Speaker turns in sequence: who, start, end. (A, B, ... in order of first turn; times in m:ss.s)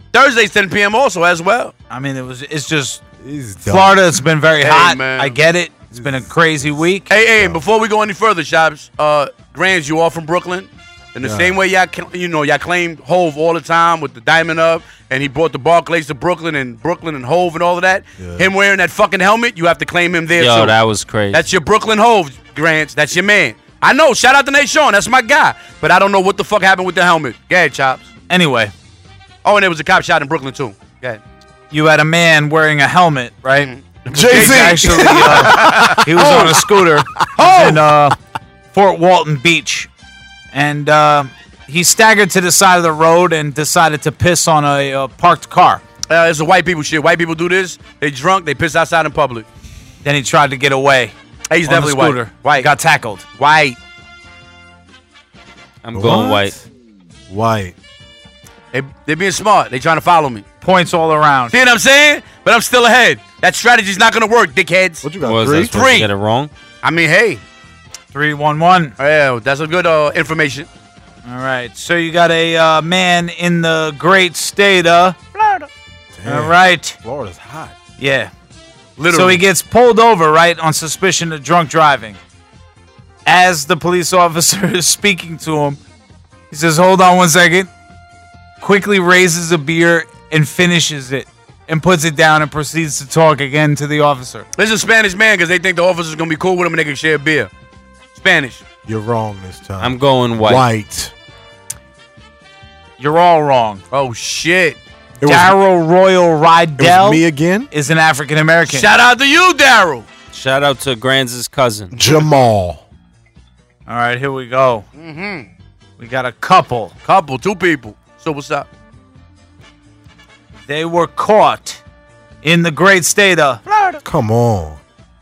0:00.1-0:01.7 A
0:01.9-0:03.0 B
0:03.2-0:04.0 C
0:03.6-0:07.1 B
0:04.6-0:05.4 A
0:06.0-0:06.2 C
0:07.1-0:20.8 A
0:11.2-0:11.6 C
0:18.2-0:18.5 C
0:20.4-0:21.5 D
0:21.3-0:28.1 A
0:28.3-0:28.7 B
0:29.4-0:31.2 A
0:31.7-0:38.2 B
0:33.7-0:36.5 A
0:34.1-0:36.7 C
0:37.4-0:37.8 A
0:38.7-0:39.9 B
0:40.5-0:45.8 B
0:46.1-0:49.5 A
0:50.0-0:51.1 B
0:51.5-0:52.7 A
0:51.7-0:53.2 B
0:53.4-0:53.8 A
0:55.8-0:56.6 D
0:55.9-0:56.6 C
0:57.3-0:57.8 C
0:58.7-1:00.4 A
1:00.6-1:01.6 B
1:01.5-1:05.0 A
1:05.0-1:05.8 C
1:05.3-1:06.5 D
1:05.7-1:06.1 A
1:06.8-1:07.4 A
1:08.1-1:09.0 B
1:09.0-1:10.7 A
1:11.2-1:15.7 B
1:16.1-1:17.8 C
1:16.2-1:17.0 B
1:18.0-1:18.3 B
1:19.0-1:19.4 A
1:19.1-1:22.2 B
1:23.3-1:25.8 B
1:26.5-1:27.7 B
1:28.6-1:34.5 B
1:34.6-1:37.5 A
1:38.2-1:38.6 A
1:38.9-1:41.1 C
1:39.8-1:40.7 D
1:43.0-1:43.8 B
1:43.9-1:44.8 A
1:45.2-1:45.6 C
1:45.2-1:48.9 B
1:46.8-1:47.7 C
1:48.7-1:50.1 A
1:50.3-1:51.9 D
1:51.9-1:52.8 C
1:53.9-1:54.8 B
1:55.0-1:55.5 A
1:56.0-1:57.0 B
1:57.0-1:58.7 A
2:00.7-2:01.8 B
2:02.4-2:03.6 B
2:04.0-2:04.8 C